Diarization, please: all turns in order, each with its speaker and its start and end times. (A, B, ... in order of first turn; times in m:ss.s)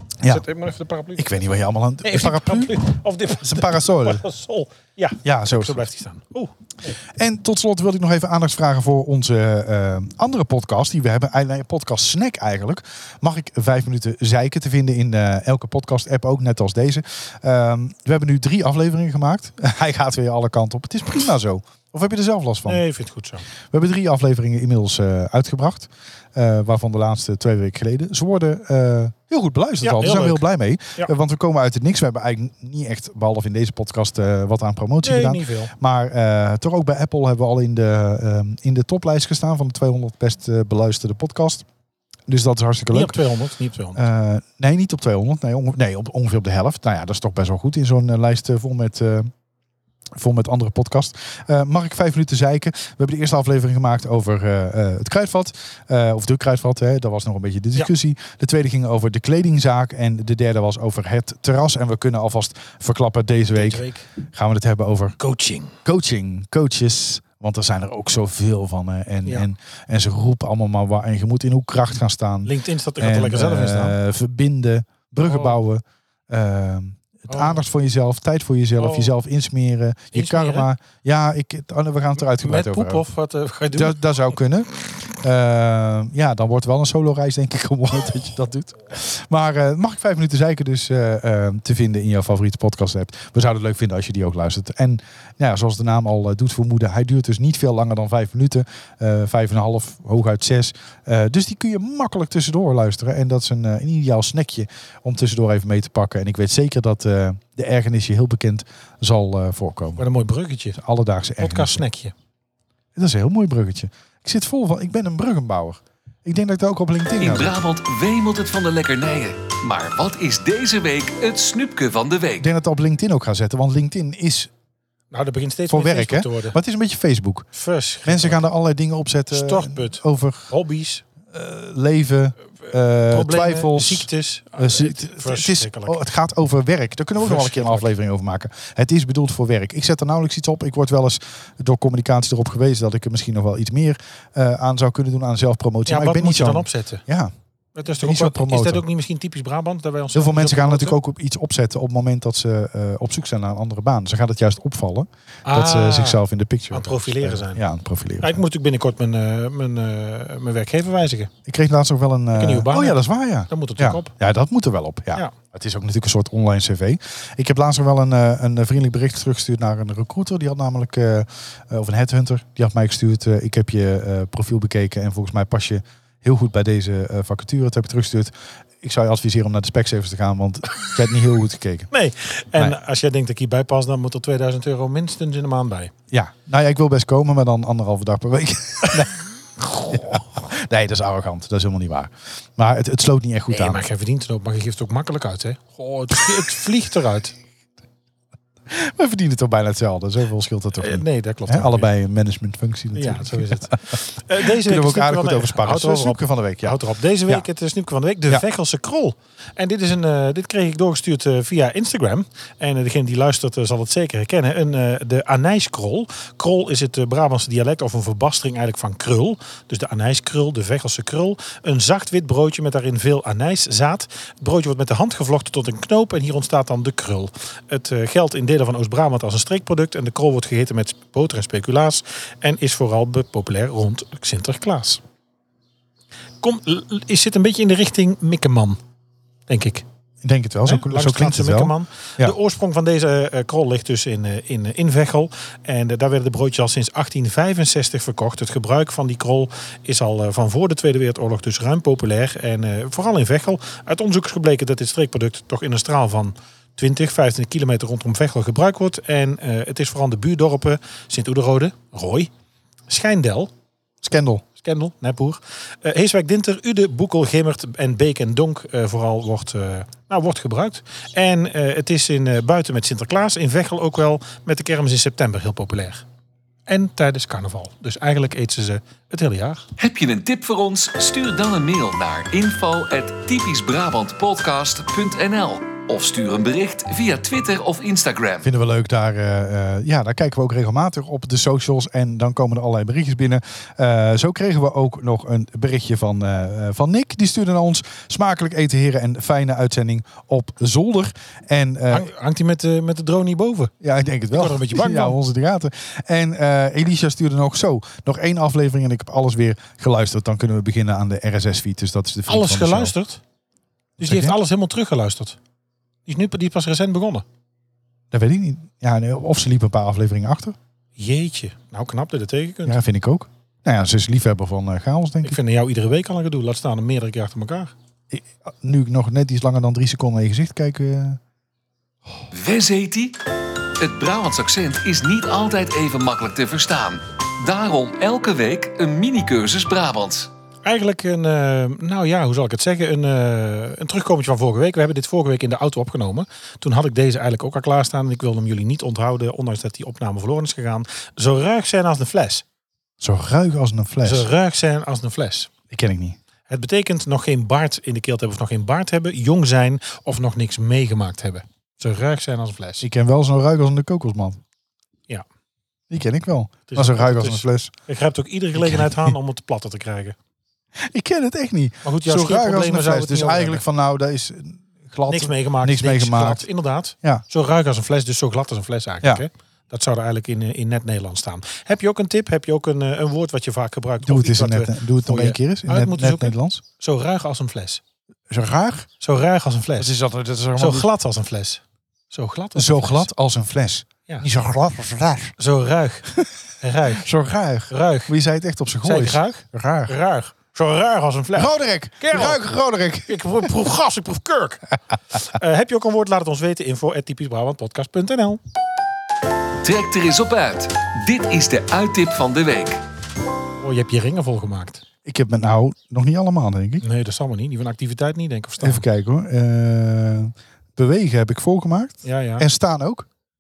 0:00.2-0:01.5 A
0:01.2-0:02.8 B
0:02.0-0:07.0 A
0:03.4-0:04.2 B
0:05.2-0:05.8 B
0:07.0-0:22.8 B
0:22.7-0:23.5 A
0:23.7-0:41.6 B
0:29.8-0:30.5 A
0:35.0-0:35.7 A
0:42.3-0:43.2 B
0:42.9-0:44.0 A
0:44.0-0:49.3 B
0:50.2-1:05.2 B
1:03.5-1:04.1 A
1:05.2-1:05.8 A
1:05.8-1:23.0 B
1:12.5-1:14.0 A
1:15.2-1:15.6 A
1:17.3-1:17.6 A
1:18.8-1:19.2 A
1:20.1-1:20.7 A
1:22.4-1:24.4 A
1:23.7-1:50.0 B
1:50.0-1:50.8 A
1:50.8-1:51.8 B
1:51.4-1:52.1 A
1:53.0-1:57.6 B
1:57.2-2:02.5 C
2:02.4-2:04.5 B
2:05.1-2:06.6 A
2:05.7-2:07.5 B
2:07.5-2:08.5 A
2:08.0-2:10.5 B
2:09.3-2:11.0 A
2:11.3-2:27.3 B
2:12.7-2:16.0 A
2:17.2-2:17.9 A
2:25.9-2:27.0 A
2:27.8-2:31.0 A
2:28.0-2:28.8 B
2:30.1-2:38.4 B
2:35.5-2:37.6 A
2:38.2-2:41.3 A
2:41.5-3:01.9 B
2:42.3-2:44.1 A
3:01.9-3:05.9 A
3:06.1-3:09.2 B
3:09.9-3:13.8 B
3:13.5-3:17.4 A
3:18.7-3:27.5 B
3:20.8-3:21.9 A
3:23.0-3:55.0 A
3:56.4-3:58.8 A
3:59.5-3:59.8 A
4:00.2-4:02.4 B
4:00.6-4:22.3 A
4:22.9-4:23.5 A
4:24.0-4:24.4 B
4:24.6-4:36.0 A
4:36.7-4:39.6 A
4:39.8-4:48.5 C
4:48.4-5:02.1 B
5:01.9-5:03.7 A
5:03.8-5:12.9 B
5:04.3-5:05.2 A
5:12.3-5:13.2 A
5:14.0-5:14.4 B
5:14.0-5:15.4 A
5:16.1-5:17.2 A
5:18.1-5:20.6 B
5:21.0-5:22.8 A
5:22.7-5:25.4 B
5:25.2-5:27.7 A
5:28.1-5:31.2 B
5:32.3-5:33.2 C
5:33.8-5:40.3 C
5:40.6-5:52.4 A
5:53.0-5:54.3 B
5:54.0-5:55.5 A
5:55.7-5:56.2 B
5:56.5-6:02.9 A
6:02.8-6:04.4 B
6:05.9-6:07.7 B
6:06.7-6:10.2 A
6:08.6-6:09.2 B
6:10.8-6:16.5 B
6:11.8-6:13.6 A
6:15.1-6:27.8 A
6:24.0-6:26.6 B
6:28.3-6:28.9 B
6:29.0-6:29.9 A
6:29.8-6:30.9 B
6:30.6-6:33.1 A
6:32.6-6:35.4 B
6:35.4-6:37.1 A
6:36.9-6:40.0 B
6:37.7-6:38.1 A
6:38.8-6:42.5 A
6:41.4-6:43.5 B
6:43.1-6:48.4 A
6:49.6-6:52.8 C
6:53.6-6:54.8 A
6:55.0-6:56.8 B
6:56.8-6:58.8 A
6:58.6-7:03.1 B
7:02.0-7:02.5 A